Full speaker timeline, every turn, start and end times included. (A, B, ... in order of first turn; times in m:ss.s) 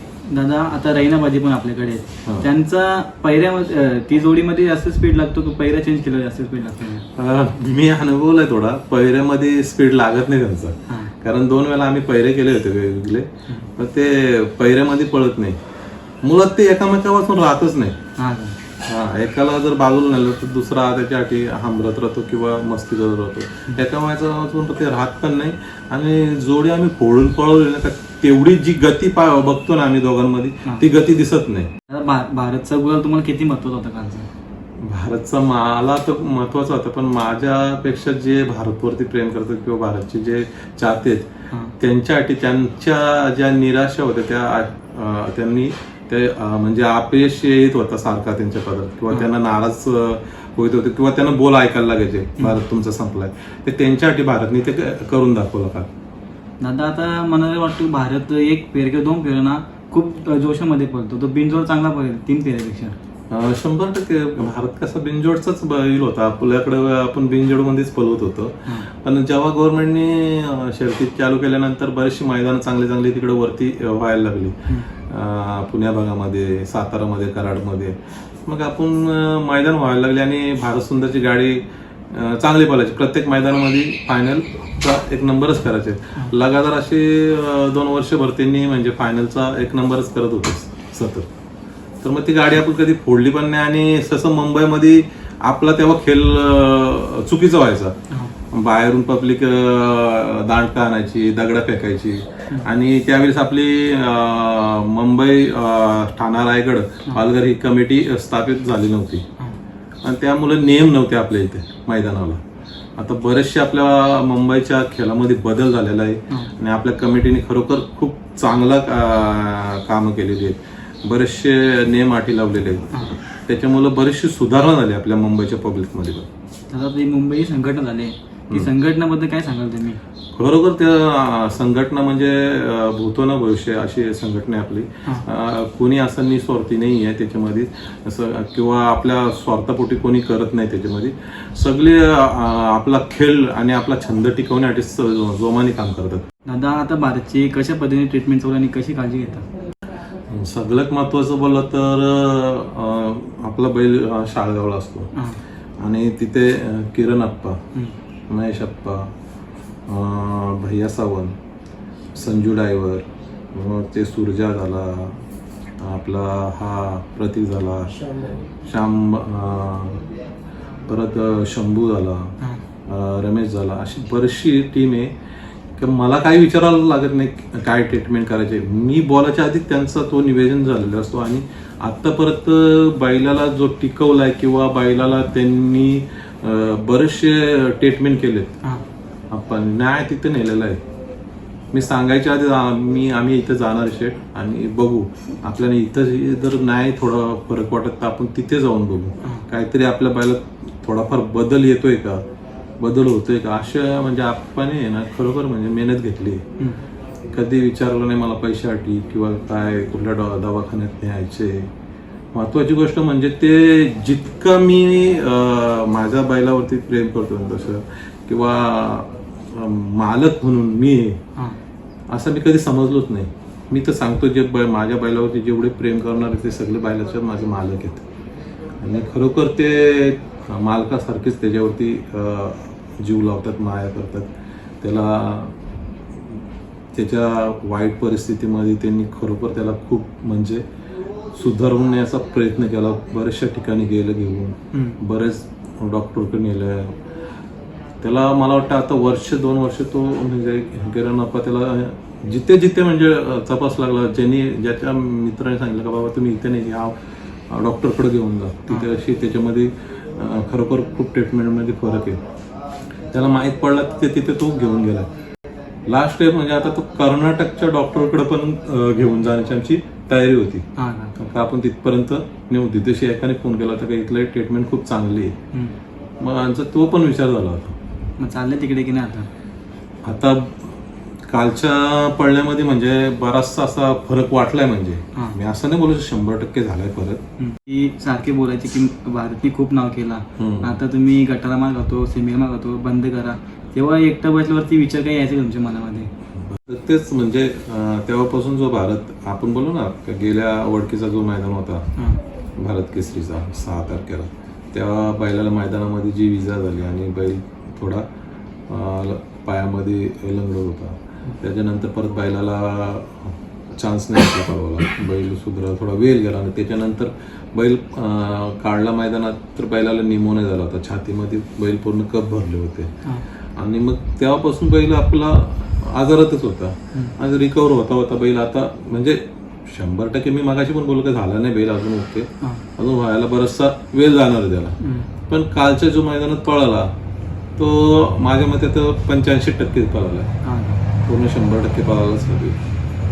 0:00.3-0:07.0 A
0:07.1-0:15.6 B
0:16.2-0:18.0 B
0:18.2-0:18.6 A
0:18.8-0:31.7 B
0:31.9-0:34.3 A
0:34.8-0:41.3 B
0:41.8-0:55.9 B
0:56.6-1:03.0 A
1:03.3-1:31.3 B
1:32.0-1:38.0 B
1:38.5-1:49.2 B
1:50.0-1:52.4 B
1:53.0-2:06.3 B
2:06.7-2:10.0 A
2:10.3-2:26.2 B
2:26.4-2:29.4 A
2:30.3-2:35.1 B
2:35.1-2:35.4 A
2:35.8-2:37.6 B
2:38.3-2:39.1 B
2:39.9-2:41.4 B
2:42.1-2:45.2 B
2:45.8-2:50.0 B
2:50.8-2:55.1 B
2:55.8-3:08.6 B
3:09.3-3:10.8 B
3:11.7-3:22.2 B
3:22.8-3:26.4 B
3:27.3-3:31.7 B
3:32.3-3:41.2 B
3:42.1-3:48.1 B
3:48.8-3:54.3 B
3:54.8-3:55.6 B
3:56.9-4:00.6 B
4:01.3-4:07.0 B
4:04.7-4:05.0 A
4:08.0-4:17.0 B
4:17.5-4:22.2 B
4:23.1-4:25.1 B
4:25.9-4:35.4 B
4:30.8-4:31.1 A
4:36.2-4:37.7 B
4:38.2-4:39.3 A
4:40.0-4:47.2 B
4:47.4-4:56.1 A
4:50.4-4:50.7 B
4:56.4-5:01.9 B
5:02.6-5:08.1 B
5:08.7-5:22.9 B
5:23.6-5:34.8 B
5:34.8-5:35.1 A
5:35.3-5:36.9 B
5:37.6-5:40.3 B
5:40.4-5:40.8 A
5:41.0-5:42.6 B